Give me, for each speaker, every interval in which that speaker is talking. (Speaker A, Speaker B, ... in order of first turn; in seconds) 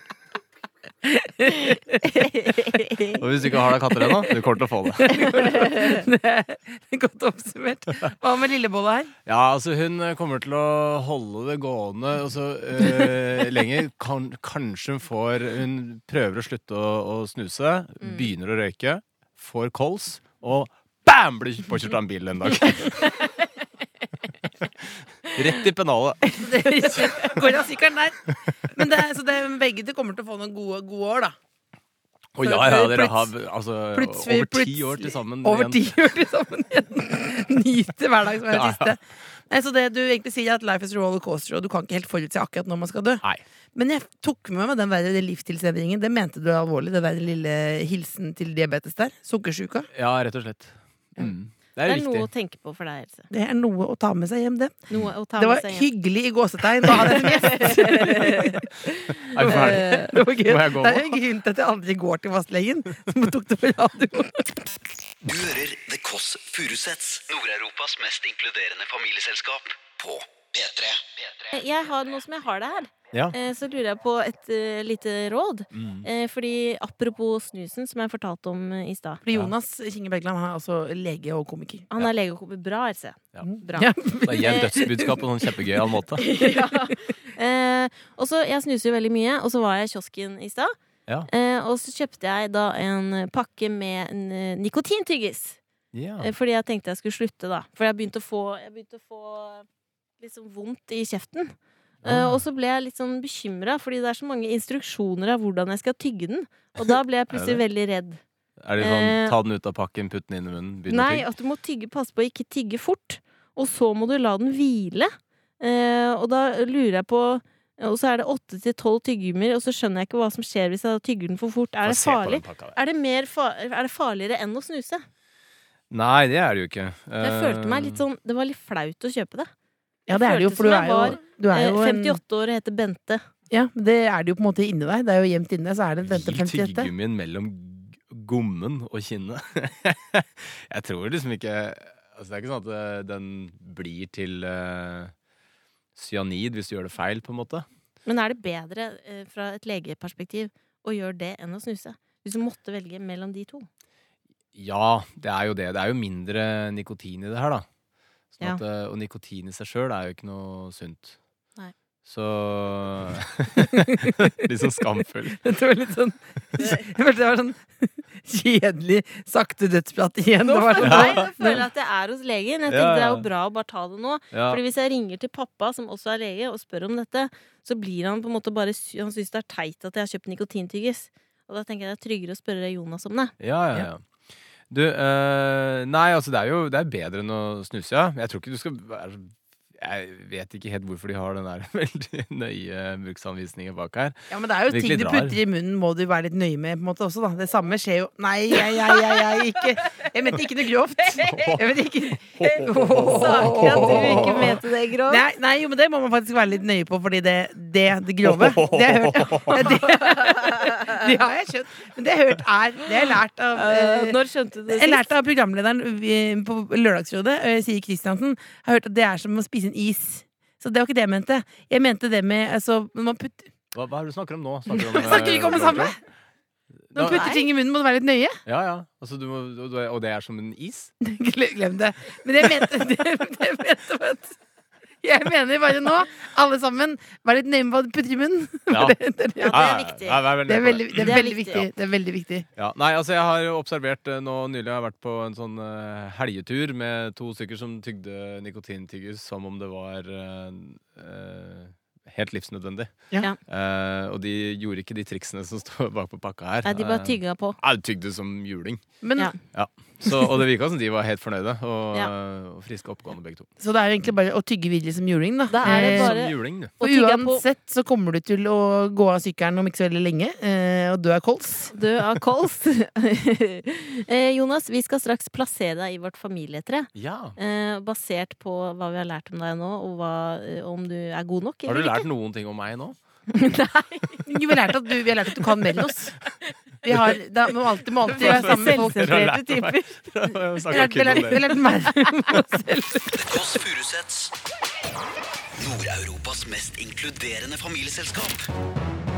Speaker A: 1.0-2.8, 4.0-4.3, 5.0-9.1, 26.4-31.4, 32.4-33.3, 33.9-43.2, 43.8-49.9, 53.3-58.7, 59.4-64.6, 79.2-81.9, 83.5-85.2, 86.4-86.9, 130.1-132.2, 133.5-136.9, 163.7-164.1, 165.4-171.6, 194.3-223.5, 224.7-226.0, 226.9-228.4, 231.0-234.4, 235.0-239.7, 240.5-242.5, 259.0-259.3, 263.6-266.2, 266.8-271.7, 284.3-286.2, 286.8-289.2, 290.7-293.5
Speaker B: 2.2-3.1, 5.6-5.9, 18.0-18.3, 26.9-27.3, 51.8-53.3, 54.9-55.9, 56.9-60.1, 71.5-79.2, 81.9-84.6, 86.2-90.7, 91.3-95.6, 96.2-99.7, 100.2-108.2, 108.8-109.4, 110.9-125.0, 127.2-129.5, 130.1-133.2, 148.1-153.7, 170.4-183.3, 203.1-205.2, 209.8-210.9, 213.6-215.1, 227.0-227.4, 239.4-240.2, 240.9-241.6, 256.6-257.6, 265.5-267.4, 271.7-282.1, 283.3-284.3, 288.1-290.3
Speaker C: 3.2-5.1, 9.3-23.1, 24.8-26.4, 32.4-35.9, 38.5-39.0, 49.9-52.3, 59.3-61.2, 75.7-76.1, 84.2-86.2, 95.9-96.3, 102.0-102.4, 106.8-107.6, 108.6-111.3, 121.8-122.8, 125.9-128.0, 136.1-145.1, 146.0-147.7, 154.5-157.7, 158.3-161.2, 162.1-165.4, 170.8-171.5, 172.7-173.3, 174.3-174.6, 183.4-184.0, 184.7-194.2, 194.7-195.4, 201.3-201.6, 202.4-204.6, 208.3-209.6, 223.7-226.0, 226.9-227.3, 228.5-230.9, 238.7-239.0, 239.5-241.7, 242.6-258.9, 259.4-263.5, 265.6-266.7, 276.9-277.4, 281.7-283.0, 288.1-291.6
Speaker D: 65.2-71.3, 293.1-294.3, 295.6-298.5